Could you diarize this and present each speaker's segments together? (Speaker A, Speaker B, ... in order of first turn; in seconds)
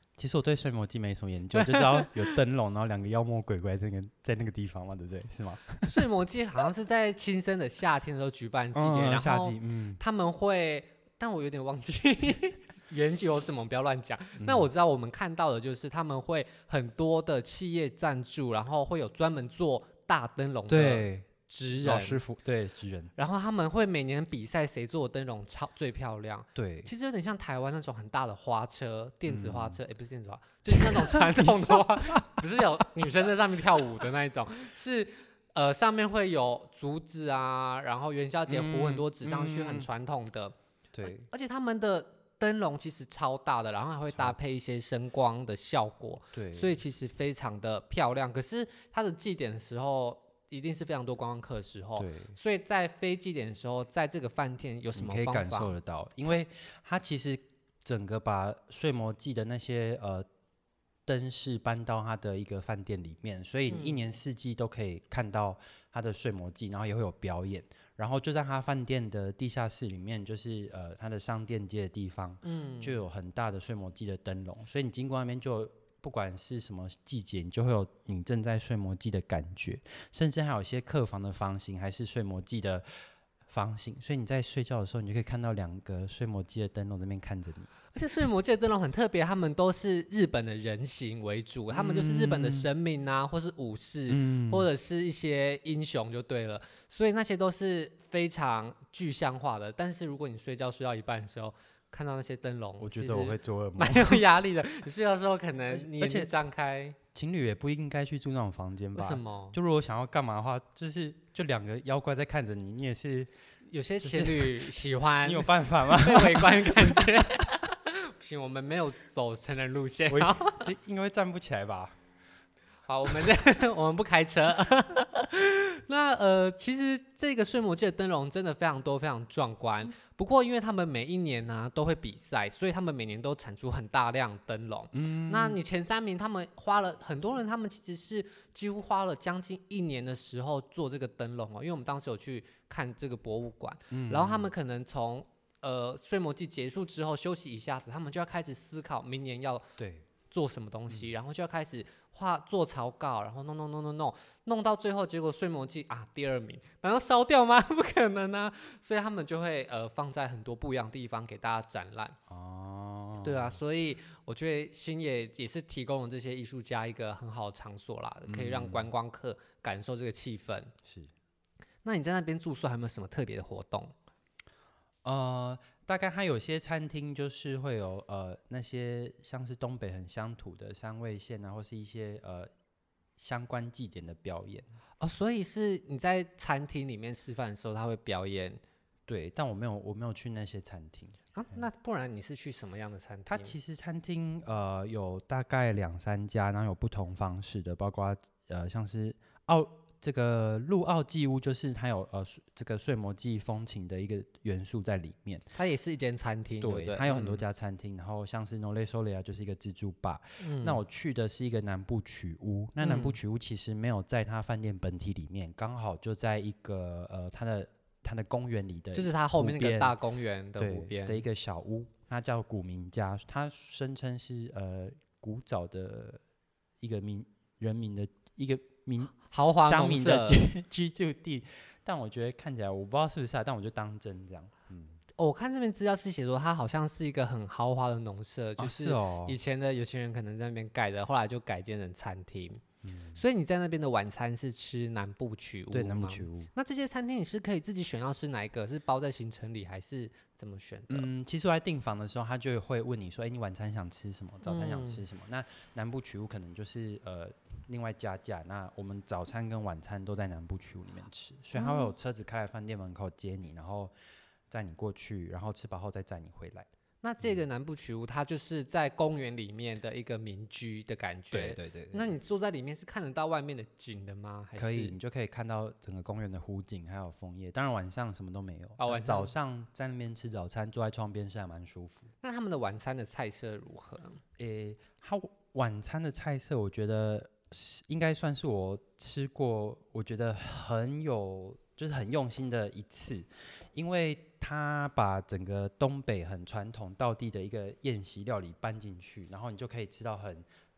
Speaker A: 0.2-6.0, 8.7-10.0, 14.4-14.7, 20.7-21.3, 21.8-23.1, 26.5-26.9, 29.2-29.8, 30.7-32.8, 38.5-39.9, 40.9-41.3, 46.3-46.8, 52.0-52.3, 54.9-60.2, 61.1-82.8, 83.5-87.7, 91.7-92.7, 94.1-94.7, 102.8-104.2, 105.7-106.3, 107.1-113.3, 114.0-117.5, 120.1-122.0, 134.9-135.6, 143.9-144.5, 149.8-150.1, 162.3-163.6, 168.3-168.9, 170.8-171.1, 175.0-182.5, 183.2-184.7, 189.1-191.6, 193.3-205.4, 206.6-219.9, 220.6-226.2, 226.8-235.0, 238.6-239.4, 242.8-243.2, 245.7-246.5, 250.9-263.9, 264.5-266.7, 271.3-272.1, 274.6-282.1, 284.4-300.4
Speaker B: 1.5-2.3, 5.8-22.2, 23.1-40.5, 41.3-55.8, 63.7-64.0, 72.4-73.0, 87.9-107.0, 108.9-109.6, 113.7-120.7, 122.9-149.7, 150.3-162.2, 163.2-170.7, 171.8-173.9, 185.0-188.6, 191.3-193.6, 205.6-207.4, 210.4-210.8, 212.8-213.2, 218.9-221.2, 229.3-230.4, 235.2-242.6, 243.1-251.1, 254.4-255.0, 261.5-261.9, 267.0-274.9, 278.8-279.3, 282.2-284.2